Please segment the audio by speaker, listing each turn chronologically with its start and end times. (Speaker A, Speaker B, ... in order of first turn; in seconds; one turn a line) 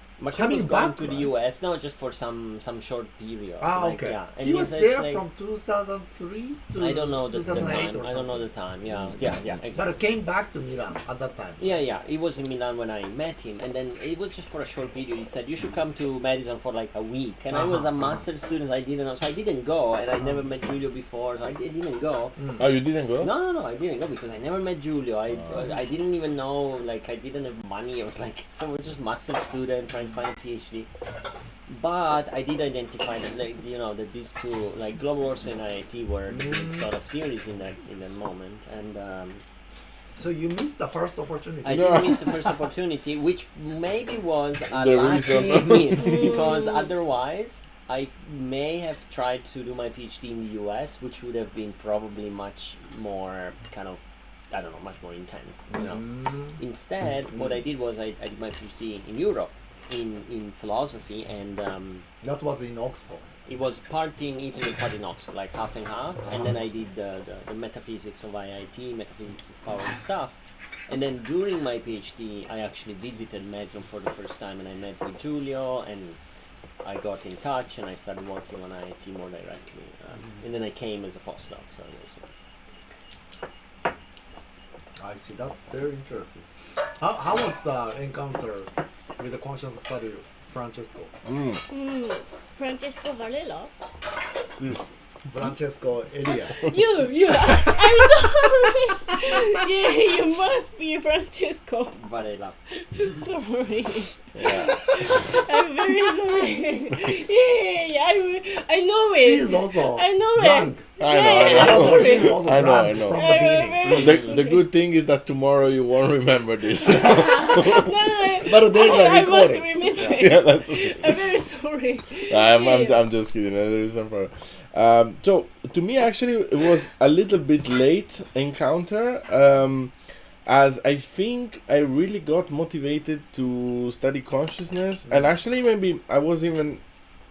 Speaker A: 0.2-5.2
Speaker B: 0.3-1.3
Speaker B: 3.6-8.5
Speaker A: 6.8-9.9
Speaker C: 9.0-9.4
Speaker B: 9.7-11.7
Speaker A: 11.6-22.5
Speaker B: 17.5-17.8
Speaker C: 22.6-23.3
Speaker A: 23.1-30.9
Speaker A: 31.7-39.4
Speaker B: 36.3-36.9
Speaker B: 40.1-42.3
Speaker A: 41.6-62.0
Speaker C: 41.7-42.2
Speaker C: 44.7-46.4
Speaker D: 46.0-46.8
Speaker B: 55.7-56.5
Speaker B: 62.2-63.3
Speaker A: 63.5-76.2
Speaker A: 76.8-82.3
Speaker B: 85.0-86.4
Speaker B: 87.0-91.1
Speaker C: 91.2-91.6
Speaker D: 91.7-93.7
Speaker B: 95.3-96.7
Speaker D: 96.5-102.0
Speaker A: 101.9-102.5
Speaker D: 102.7-112.5
Speaker C: 104.3-104.7
Speaker B: 109.2-113.9
Speaker C: 111.0-113.3
Speaker D: 113.0-114.7
Speaker A: 113.8-114.3
Speaker C: 113.9-118.3
Speaker D: 116.9-123.0
Speaker B: 118.4-119.8
Speaker C: 119.9-121.4
Speaker C: 122.3-129.9
Speaker C: 130.4-136.8